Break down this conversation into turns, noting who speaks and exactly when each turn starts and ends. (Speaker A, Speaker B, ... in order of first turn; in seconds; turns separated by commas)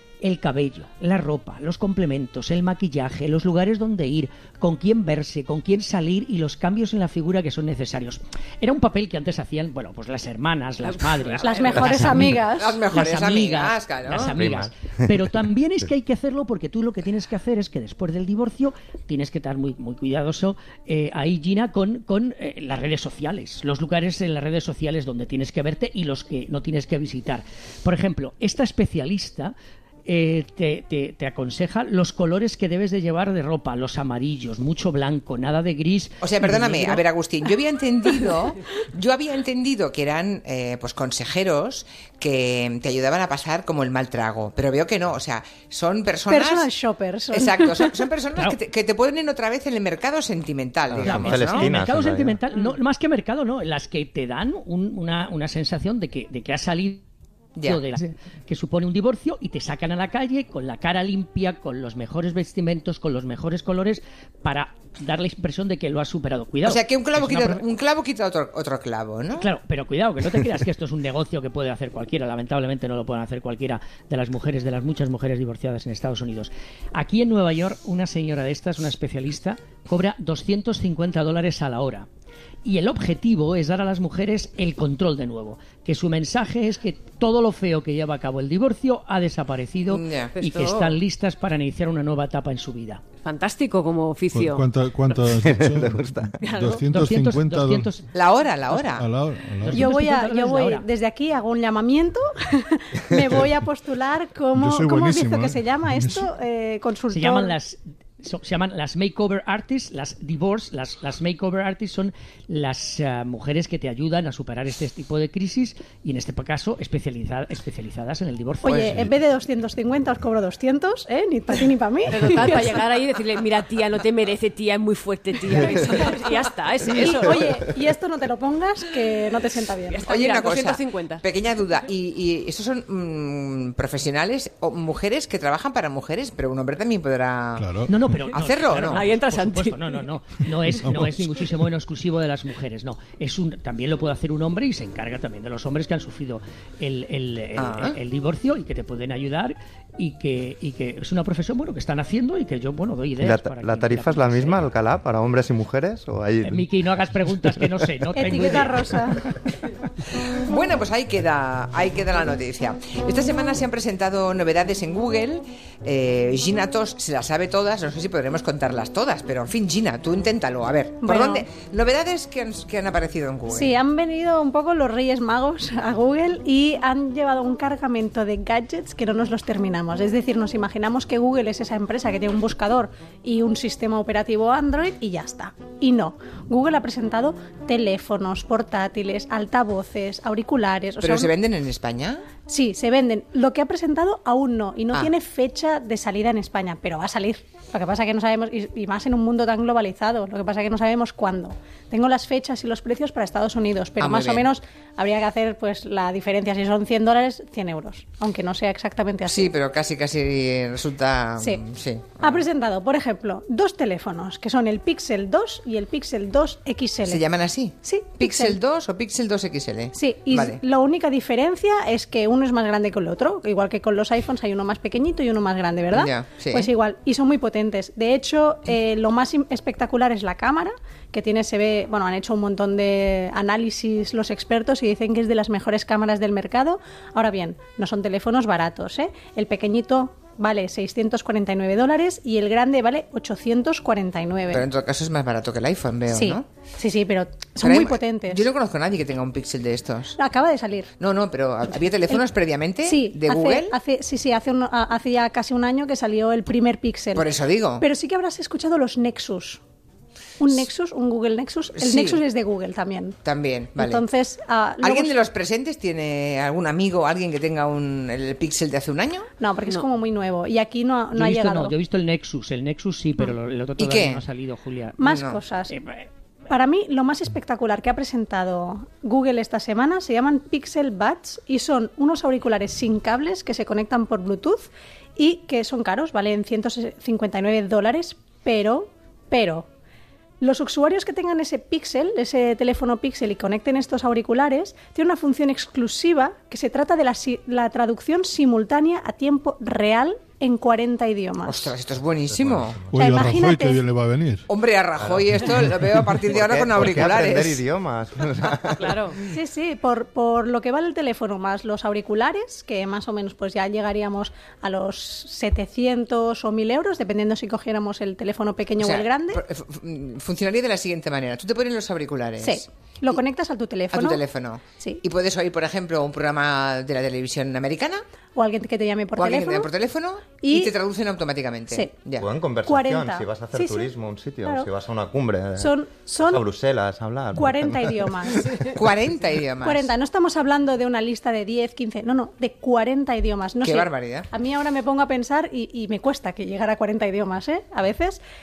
Speaker A: 0.2-29.5, Speaker B: 11.2-12.0, Speaker C: 11.4-12.8, Speaker D: 12.6-14.3, Speaker E: 14.2-15.2, Speaker A: 30.1-37.0, Speaker D: 36.2-46.7, Speaker C: 46.3-48.0, Speaker D: 47.3-51.7, Speaker E: 50.9-52.4, Speaker A: 51.0-57.0, Speaker A: 57.6-67.6, Speaker D: 66.6-69.5, Speaker A: 69.3-82.1, Speaker A: 82.6-93.0, Speaker D: 89.9-90.3, Speaker B: 90.3-91.0, Speaker B: 93.2-94.7, Speaker F: 94.3-97.9, Speaker E: 95.2-96.4, Speaker B: 96.4-96.8, Speaker A: 96.9-98.0, Speaker D: 98.1-99.0, Speaker F: 98.7-99.9, Speaker A: 99.6-100.8, Speaker C: 99.8-107.5, Speaker F: 104.5-106.3, Speaker A: 107.1-119.1, Speaker C: 118.6-122.8, Speaker B: 122.1-127.6, Speaker C: 127.0-130.0, Speaker B: 129.9-131.2, Speaker D: 130.1-137.7, Speaker F: 137.6-137.9, Speaker A: 137.9-154.7, Speaker D: 138.3-139.0, Speaker B: 138.8-139.9, Speaker F: 140.8-141.4, Speaker D: 147.6-148.0, Speaker E: 153.2-156.6, Speaker A: 156.4-158.8, Speaker C: 158.2-159.3, Speaker D: 160.4-173.8, Speaker C: 171.0-171.4, Speaker C: 173.5-191.3, Speaker D: 191.0-192.2, Speaker C: 192.5-209.5, Speaker D: 204.0-204.5, Speaker D: 209.3-212.4, Speaker C: 212.2-217.2, Speaker D: 217.1-220.6, Speaker C: 217.8-218.6, Speaker C: 219.9-244.7, Speaker D: 225.9-226.7, Speaker D: 244.5-246.4, Speaker C: 246.1-248.4, Speaker D: 247.6-250.2, Speaker C: 250.2-250.9, Speaker D: 251.0-253.7, Speaker C: 252.8-257.3, Speaker D: 257.1-257.8, Speaker C: 257.8-259.6, Speaker C: 260.4-263.1, Speaker D: 261.8-262.2, Speaker D: 263.2-264.0, Speaker C: 263.8-265.1, Speaker D: 264.8-269.3, Speaker C: 269.4-271.7, Speaker A: 271.1-275.0, Speaker D: 273.8-274.2, Speaker C: 275.0-275.7, Speaker D: 275.0-275.4, Speaker A: 275.7-276.1, Speaker C: 276.5-289.7, Speaker C: 290.4-301.7, Speaker D: 301.4-302.8, Speaker E: 302.3-302.8, Speaker F: 302.9-304.4, Speaker C: 302.9-303.8, Speaker D: 304.5-307.6, Speaker E: 305.0-305.6, Speaker E: 306.3-309.1, Speaker B: 308.8-309.2, Speaker C: 309.2-319.4, Speaker D: 318.8-323.2, Speaker C: 322.4-324.2, Speaker D: 323.9-328.0, Speaker C: 328.4-329.7, Speaker D: 329.1-332.3, Speaker C: 330.4-330.7, Speaker E: 332.2-338.6, Speaker C: 332.7-333.9, Speaker C: 335.6-336.4, Speaker C: 337.4-338.6, Speaker D: 338.7-339.9, Speaker C: 339.6-348.2, Speaker D: 343.6-344.3